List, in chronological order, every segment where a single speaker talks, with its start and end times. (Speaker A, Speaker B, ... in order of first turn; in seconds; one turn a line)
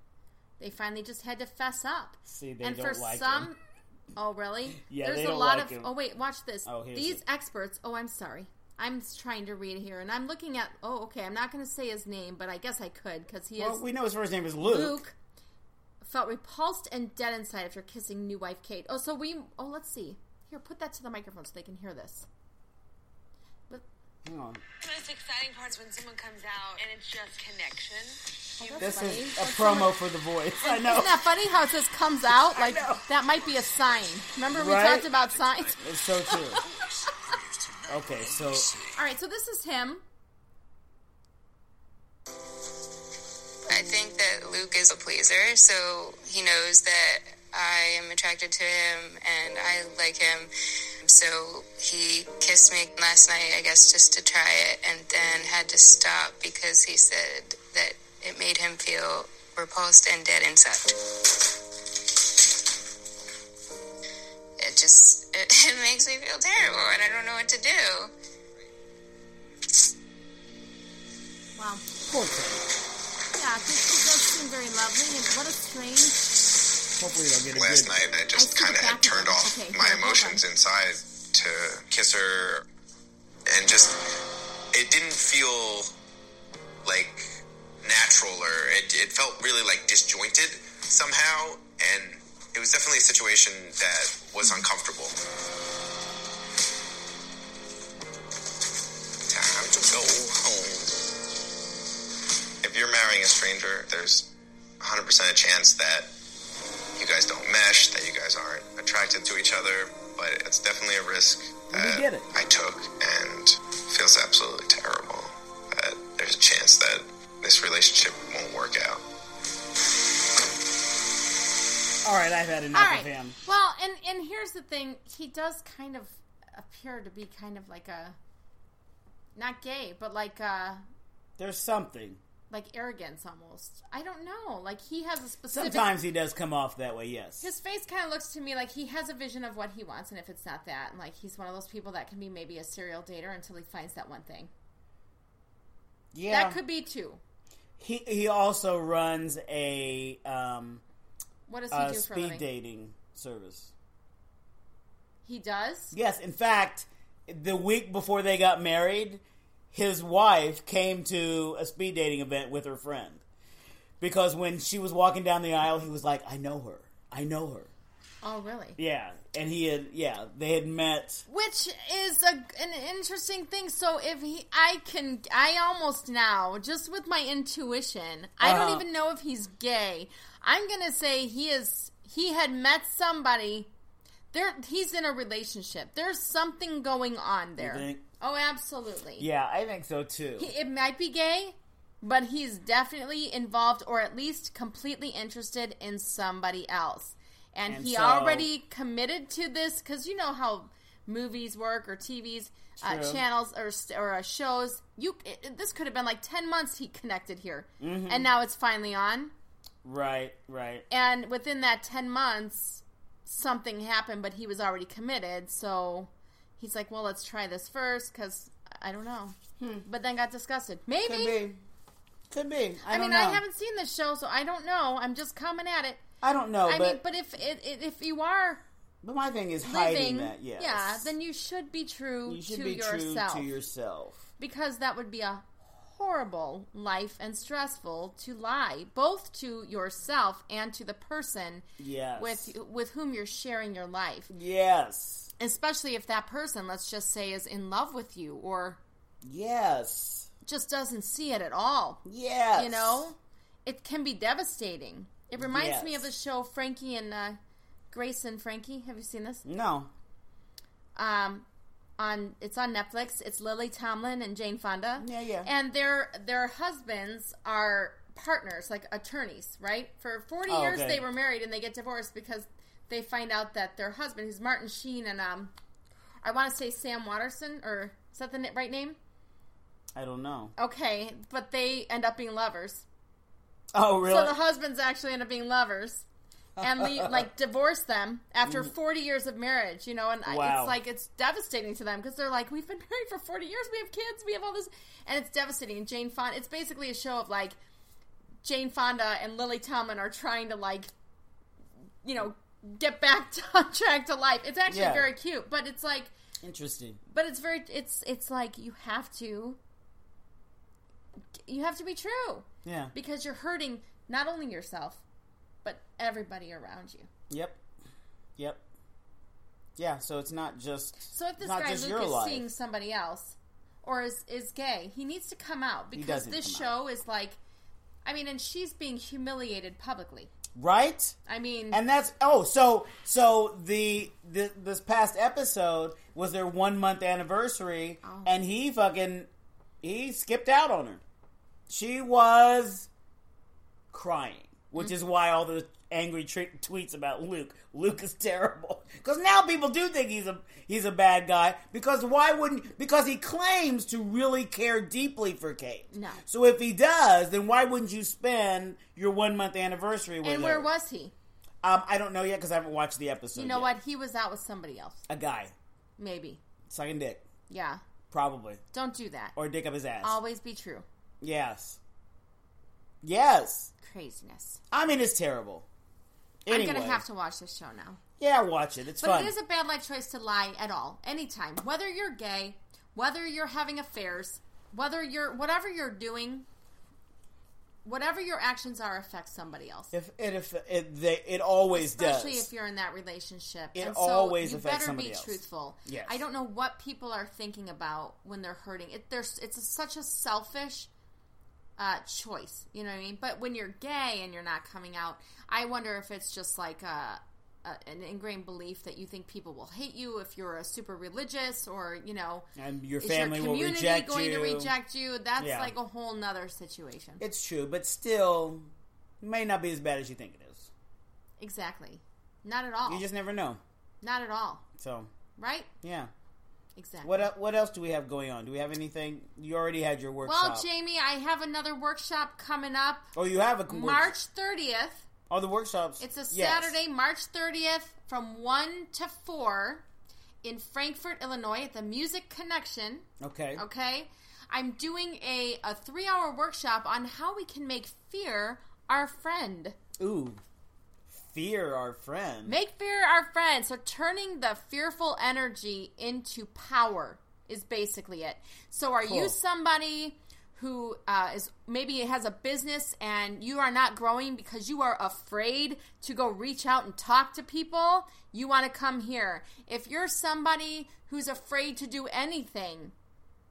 Speaker A: 0.6-3.6
Speaker B: 2.3-3.5
Speaker A: 4.2-13.8
Speaker B: 4.8-5.9
Speaker B: 6.7-7.2
Speaker B: 13.6-15.0
Speaker A: 14.6-15.2
Speaker A: 16.0-22.3
Speaker B: 24.2-24.6
Speaker C: 24.8-28.9
Speaker A: 28.6-30.0
Speaker B: 28.8-31.2
Speaker A: 30.6-36.6
Speaker B: 32.4-33.1
Speaker B: 34.5-35.1
Speaker B: 35.8-36.6
Speaker B: 37.9-38.8
Speaker A: 38.9-40.0
Speaker D: 43.7-50.5
Speaker D: 51.0-61.0
Speaker D: 64.6-68.1
Speaker A: 71.6-71.8
Speaker B: 72.0-72.7
Speaker A: 73.3-76.3
Speaker B: 77.0-78.0
Speaker E: 77.5-82.7
Speaker A: 78.3-80.4
Speaker E: 83.5-84.0
Speaker E: 84.7-85.9
Speaker E: 86.8-95.2
Speaker E: 99.3-101.0
Speaker E: 102.6-106.1
Speaker E: 107.0-119.0
Speaker B: 111.7-112.3
Speaker B: 122.0-123.4
Speaker A: 122.7-128.2
Speaker A: 129.4-130.8
Speaker B: 131.4-132.2
Speaker A: 132.5-135.9
Speaker B: 135.5-137.5
Speaker A: 137.4-144.5
Speaker B: 146.1-146.6
Speaker A: 146.3-147.2
Speaker B: 147.8-150.8
Speaker A: 151.5-152.5
Speaker B: 151.7-153.7
Speaker A: 155.2-155.9
Speaker B: 155.9-163.2
Speaker B: 164.0-167.7
Speaker A: 168.2-168.8
Speaker B: 168.8-171.2
Speaker A: 171.3-183.7
Speaker B: 178.4-178.9
Speaker A: 184.3-189.3
Speaker B: 187.6-188.0
Speaker B: 189.2-190.5
Speaker A: 190.4-209.3
Speaker B: 197.7-198.5
Speaker B: 202.8-203.2
Speaker B: 207.8-208.3
Speaker B: 209.8-210.9
Speaker A: 210.9-221.4
Speaker B: 219.6-219.8
Speaker B: 221.1-221.6
Speaker B: 222.3-223.4
Speaker A: 222.8-226.0
Speaker B: 226.2-227.0
Speaker A: 226.7-228.6
Speaker B: 229.0-231.1
Speaker A: 229.6-233.5
Speaker B: 232.3-234.3
Speaker A: 234.4-241.7
Speaker B: 241.8-242.5
Speaker A: 242.2-244.3
Speaker B: 244.3-245.3
Speaker A: 245.4-248.8
Speaker B: 249.2-250.3
Speaker A: 250.4-252.0
Speaker B: 252.1-253.1
Speaker A: 252.6-257.4
Speaker B: 255.4-256.1
Speaker A: 257.9-259.5
Speaker B: 259.4-259.9
Speaker A: 261.0-261.5
Speaker A: 262.0-275.5
Speaker B: 265.0-265.5
Speaker B: 270.5-271.1
Speaker A: 276.2-279.0
Speaker B: 279.9-280.5
Speaker A: 280.6-282.9
Speaker B: 283.7-284.4
Speaker A: 284.0-286.1
Speaker B: 286.6-287.3
Speaker A: 286.6-297.6
Speaker B: 288.5-288.7
Speaker B: 290.3-290.8
Speaker A: 298.4-300.9
Speaker A: 302.0-306.1
Speaker B: 304.7-305.1
Speaker B: 306.4-307.0
Speaker A: 307.1-309.6
Speaker A: 311.5-315.0
Speaker B: 312.6-312.9
Speaker A: 315.6-317.1
Speaker B: 317.3-317.6
Speaker B: 318.4-318.6
Speaker B: 319.8-322.5
Speaker A: 321.1-327.4
Speaker B: 325.9-326.7
Speaker A: 328.0-330.3
Speaker B: 330.6-331.2
Speaker A: 331.3-331.8
Speaker B: 331.7-339.3
Speaker A: 338.0-338.4
Speaker B: 339.8-341.0
Speaker B: 341.7-342.9
Speaker B: 343.9-360.7
Speaker A: 355.9-356.2
Speaker A: 360.2-361.1
Speaker B: 361.6-363.7
Speaker A: 363.4-365.0
Speaker B: 365.1-365.5
Speaker A: 366.0-366.4
Speaker B: 366.7-367.2
Speaker A: 367.5-367.8
Speaker B: 368.1-368.6
Speaker A: 368.7-369.4
Speaker B: 369.4-370.2
Speaker A: 370.0-370.9
Speaker B: 371.2-371.8
Speaker B: 373.0-373.7
Speaker A: 373.8-374.6
Speaker B: 374.7-375.7
Speaker B: 376.4-377.0
Speaker A: 376.5-378.0
Speaker B: 378.2-379.3
Speaker A: 379.0-386.5
Speaker A: 387.9-389.9
Speaker B: 389.9-392.5
Speaker A: 391.7-400.9
Speaker B: 393.8-396.2
Speaker A: 401.8-412.5
Speaker B: 412.6-414.7
Speaker A: 413.0-417.2
Speaker B: 415.4-415.7
Speaker B: 417.2-418.7
Speaker B: 419.2-420.7
Speaker A: 421.4-423.1
Speaker B: 422.9-423.6
Speaker A: 424.0-424.6
Speaker B: 424.8-425.1
Speaker A: 425.4-425.7
Speaker B: 425.8-426.1
Speaker A: 426.8-427.3
Speaker B: 427.0-430.7
Speaker A: 430.2-433.1
Speaker B: 433.1-434.1
Speaker A: 433.7-435.1
Speaker B: 435.3-436.8
Speaker A: 436.0-439.9
Speaker A: 440.4-449.8
Speaker B: 443.2-443.6
Speaker B: 450.0-450.4
Speaker B: 451.1-452.6
Speaker A: 452.5-472.9
Speaker B: 459.0-459.4